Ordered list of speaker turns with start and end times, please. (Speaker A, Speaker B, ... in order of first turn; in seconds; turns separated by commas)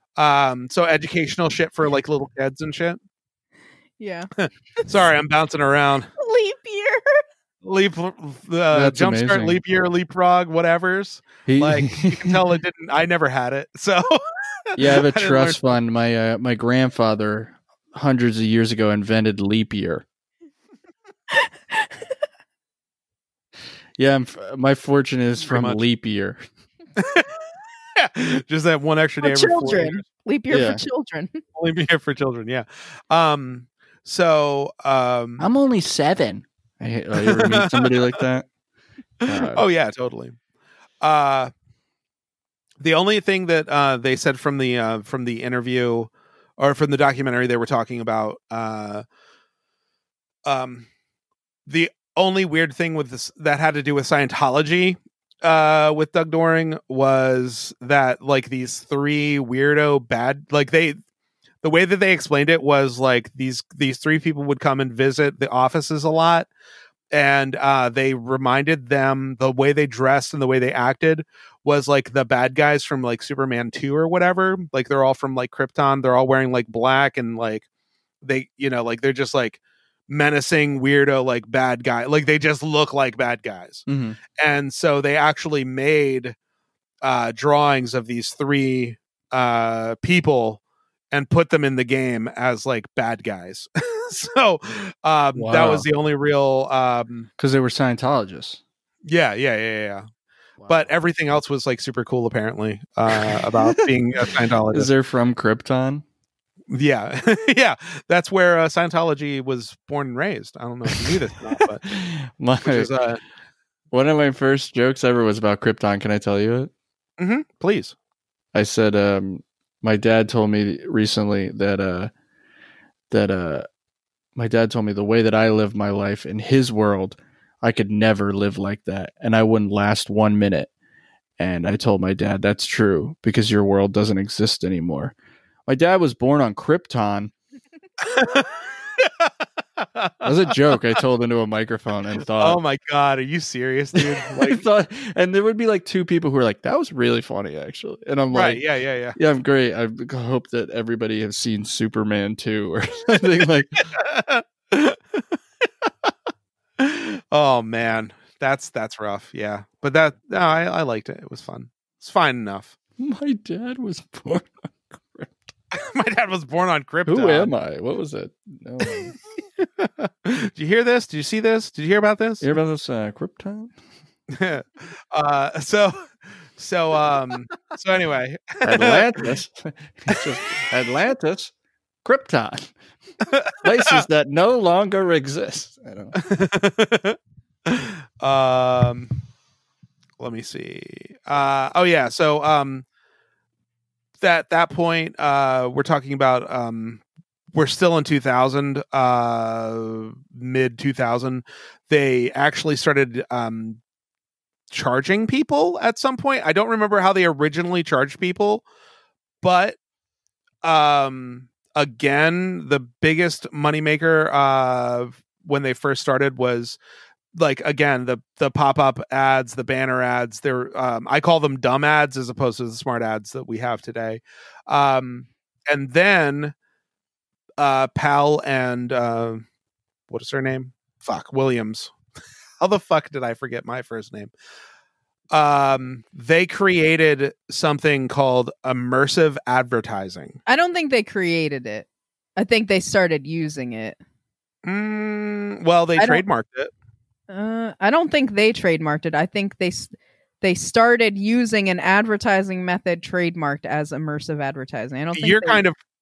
Speaker A: 0.2-3.0, Speaker B: 4.0-4.9, Speaker A: 4.4-6.1, Speaker B: 6.2-7.2, Speaker A: 7.6-15.6, Speaker C: 8.7-9.6, Speaker C: 11.4-12.4, Speaker C: 14.8-20.1, Speaker B: 21.3-21.9, Speaker C: 24.0-26.4, Speaker A: 25.4-25.8, Speaker A: 27.0-27.3, Speaker A: 28.0-30.1, Speaker B: 29.2-31.4, Speaker C: 30.5-30.8, Speaker A: 31.6-35.5, Speaker C: 35.4-38.5, Speaker A: 37.2-38.0, Speaker A: 39.2-40.4, Speaker C: 39.3-39.6, Speaker A: 41.0-41.5, Speaker A: 42.8-49.0, Speaker A: 50.5-50.9, Speaker A: 51.7-61.0, Speaker A: 61.6-66.5, Speaker A: 67.1-77.7, Speaker A: 78.2-83.8, Speaker C: 83.9-84.2, Speaker A: 84.4-86.3, Speaker A: 87.0-97.3, Speaker C: 95.3-95.9, Speaker C: 97.4-98.6, Speaker A: 99.0-100.1, Speaker C: 100.6-100.9, Speaker A: 100.7-104.9, Speaker C: 103.1-103.9, Speaker C: 104.7-106.0, Speaker A: 106.7-111.9, Speaker C: 110.9-111.2, Speaker C: 111.8-112.9, Speaker A: 112.6-113.2, Speaker C: 113.9-116.7, Speaker A: 117.2-118.0, Speaker C: 118.5-122.1, Speaker C: 123.1-123.7, Speaker C: 124.4-130.7, Speaker C: 131.4-135.1, Speaker C: 135.7-137.3, Speaker A: 138.0-140.7, Speaker C: 140.2-142.6, Speaker A: 142.4-144.6, Speaker C: 144.0-148.6, Speaker A: 148.3-149.2, Speaker C: 149.2-153.9, Speaker A: 153.9-155.2, Speaker A: 156.8-162.8, Speaker C: 163.0-165.4, Speaker A: 165.7-167.5, Speaker C: 167.1-169.2, Speaker A: 169.6-172.5, Speaker C: 172.4-173.7, Speaker A: 174.3-179.1, Speaker C: 178.6-181.5, Speaker C: 182.0-182.7, Speaker A: 183.3-184.0, Speaker C: 183.6-186.2, Speaker A: 186.2-189.1, Speaker A: 190.2-192.8, Speaker A: 194.2-197.0, Speaker A: 197.5-203.8, Speaker A: 204.7-208.7, Speaker A: 209.4-209.8, Speaker A: 210.6-216.8, Speaker A: 217.3-226.5, Speaker A: 227.6-229.4, Speaker A: 230.1-231.9, Speaker A: 232.6-234.3, Speaker A: 235.3-240.4, Speaker B: 240.5-244.0, Speaker A: 244.6-246.7, Speaker B: 246.0-246.2, Speaker B: 247.3-255.6, Speaker A: 255.2-255.8